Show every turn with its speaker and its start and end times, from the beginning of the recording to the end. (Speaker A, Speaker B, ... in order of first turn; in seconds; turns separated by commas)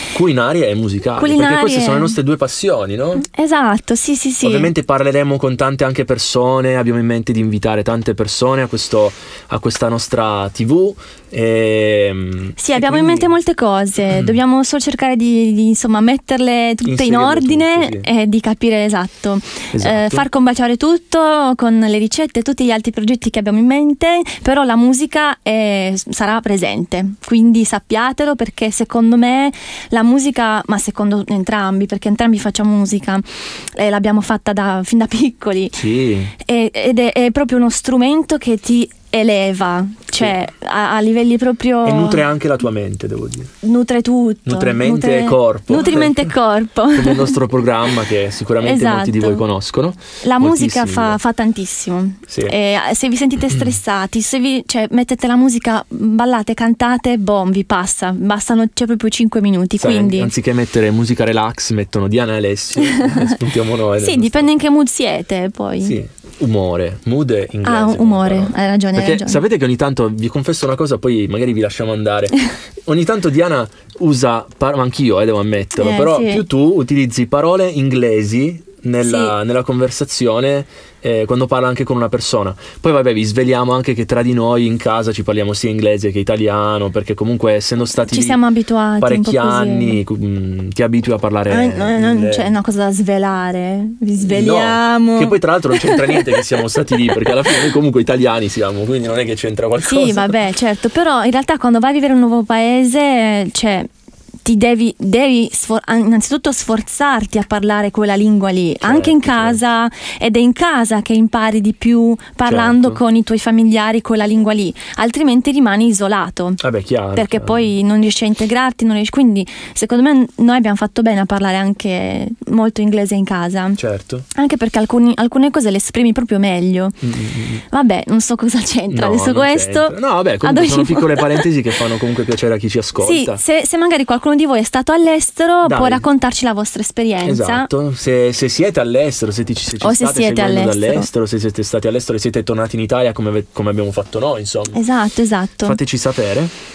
Speaker A: 0.1-3.2, Speaker B: 1.2-2.1, Speaker B: 3.2-4.7, Speaker A: 4.4-13.3, Speaker B: 12.6-35.8, Speaker A: 14.1-14.4, Speaker A: 16.8-18.1, Speaker A: 19.7-20.2, Speaker A: 35.7-36.3, Speaker B: 36.4-42.2, Speaker A: 41.8-43.5, Speaker B: 43.6-47.4, Speaker A: 44.5-46.3, Speaker A: 46.9-51.2, Speaker B: 48.6-49.4, Speaker B: 50.2-60.3, Speaker A: 52.3-52.5, Speaker A: 53.5-53.8, Speaker A: 59.8-64.5, Speaker B: 62.8-63.3, Speaker B: 64.0-66.0, Speaker A: 65.8-88.4, Speaker B: 67.6-69.4, Speaker B: 75.8-76.4, Speaker B: 79.0-79.3, Speaker B: 88.0-90.0, Speaker A: 89.0-92.5, Speaker B: 91.5-96.4, Speaker A: 94.2-100.3, Speaker B: 99.8-103.9, Speaker B: 104.4-116.6, Speaker A: 108.8-109.6, Speaker A: 112.4-113.0, Speaker A: 116.6-117.7, Speaker B: 117.1-123.8, Speaker A: 123.8-124.2, Speaker B: 124.3-127.0, Speaker A: 127.0-127.6, Speaker B: 127.7-131.4, Speaker A: 128.9-133.4, Speaker B: 133.0-137.7, Speaker A: 135.6-136.0, Speaker A: 137.2-144.8, Speaker B: 139.8-141.1, Speaker B: 144.7-145.8, Speaker A: 145.6-146.5